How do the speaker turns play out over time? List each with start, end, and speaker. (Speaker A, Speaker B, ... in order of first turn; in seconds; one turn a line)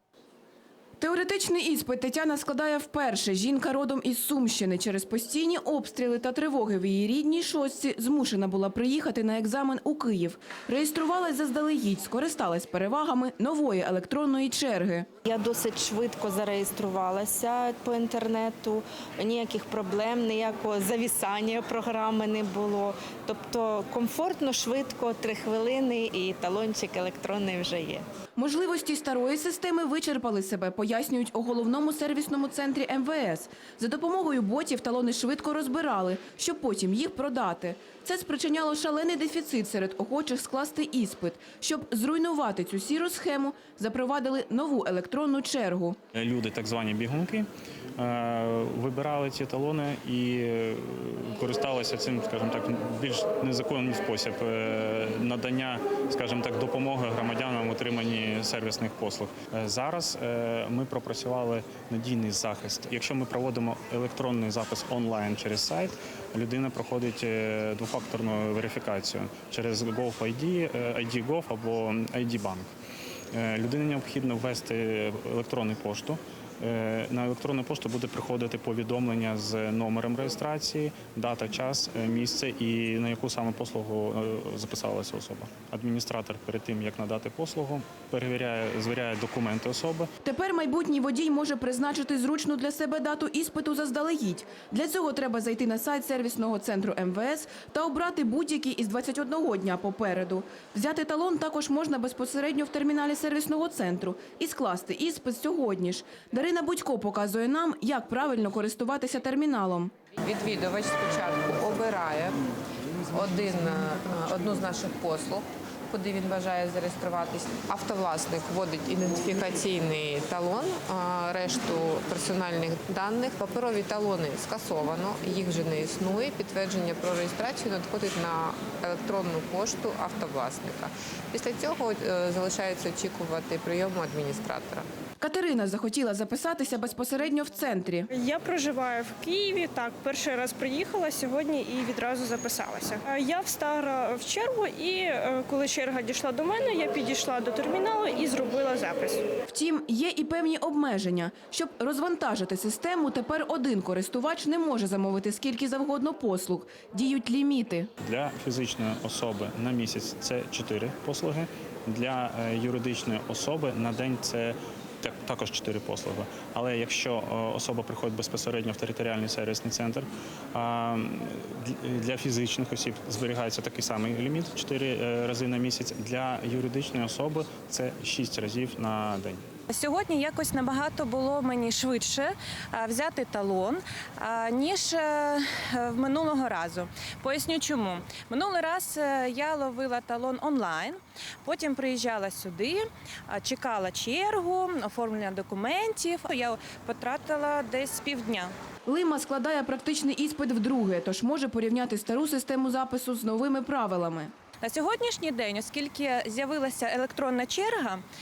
Speaker A: 1.0-15.1
Speaker B: 15.2-28.0
Speaker A: 28.4-46.0
Speaker C: 46.1-72.7
Speaker C: 73.3-90.1
Speaker A: 90.2-109.9
Speaker D: 110.2-112.4
Speaker D: 113.1-134.9
Speaker A: 135.2-138.1
Speaker E: 138.2-149.2
Speaker A: 149.5-157.9
Speaker C: 158.0-179.4
Speaker F: 179.7-198.5
Speaker A: 198.8-204.3
Speaker F: 204.6-208.0